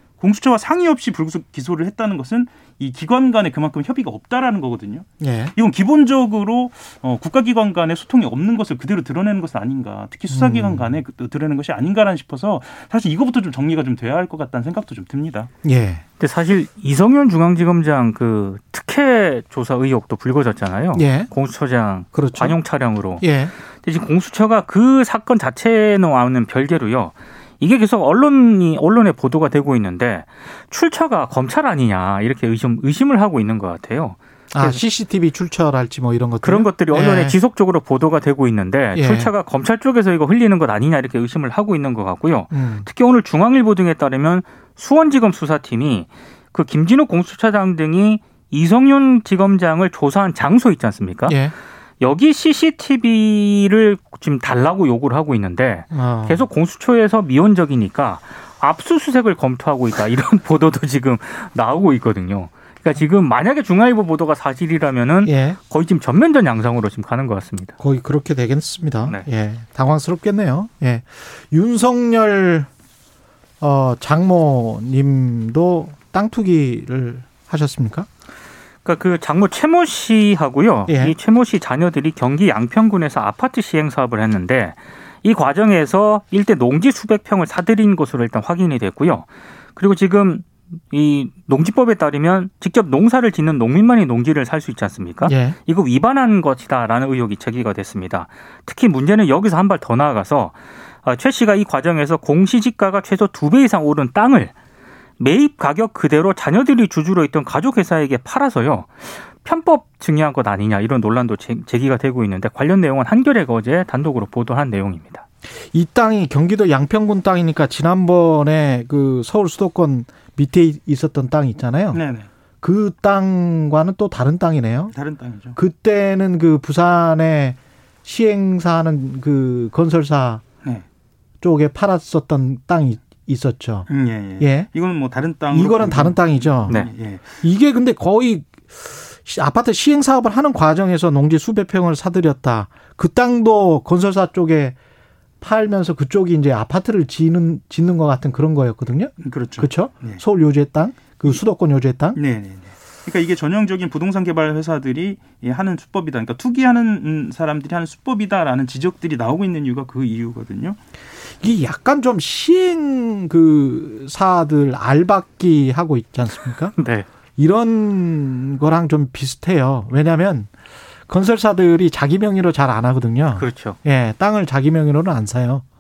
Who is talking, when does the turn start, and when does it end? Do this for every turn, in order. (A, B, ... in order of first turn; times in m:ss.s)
0:00.2-0:15.5 A
0:05.2-0:05.5 B
0:10.3-0:10.9 B
0:15.6-0:16.0 B
0:16.2-0:23.2 C
0:20.9-0:21.3 B
0:22.1-0:22.6 B
0:23.2-0:23.5 B
0:23.8-0:34.8 C
0:34.5-0:37.4 B
0:36.4-0:51.4 C
0:38.9-0:39.3 B
0:42.5-0:42.9 B
0:51.3-0:51.5 B
0:52.0-1:07.8 C
0:55.9-0:56.4 B
1:05.2-1:05.6 B
1:07.8-1:12.7 B
1:13.6-1:18.1 B
1:18.8-1:44.5 C
1:20.9-1:21.2 B
1:35.2-1:35.6 B
1:45.2-1:55.2 C
1:55.7-2:02.0 B
2:01.9-2:02.2 A
2:02.6-2:04.9 B
2:04.9-2:05.6 A
2:05.5-2:10.4 B
2:11.4-2:14.7 B
2:13.9-2:17.2 A
2:15.5-2:24.8 B
2:25.4-2:32.2 B
2:29.2-2:30.2 A
2:32.1-2:40.8 A
2:41.4-2:46.7 B
2:46.8-2:47.0 C
2:47.4-2:50.5 B
2:51.1-2:55.6 B
2:53.4-2:53.8 C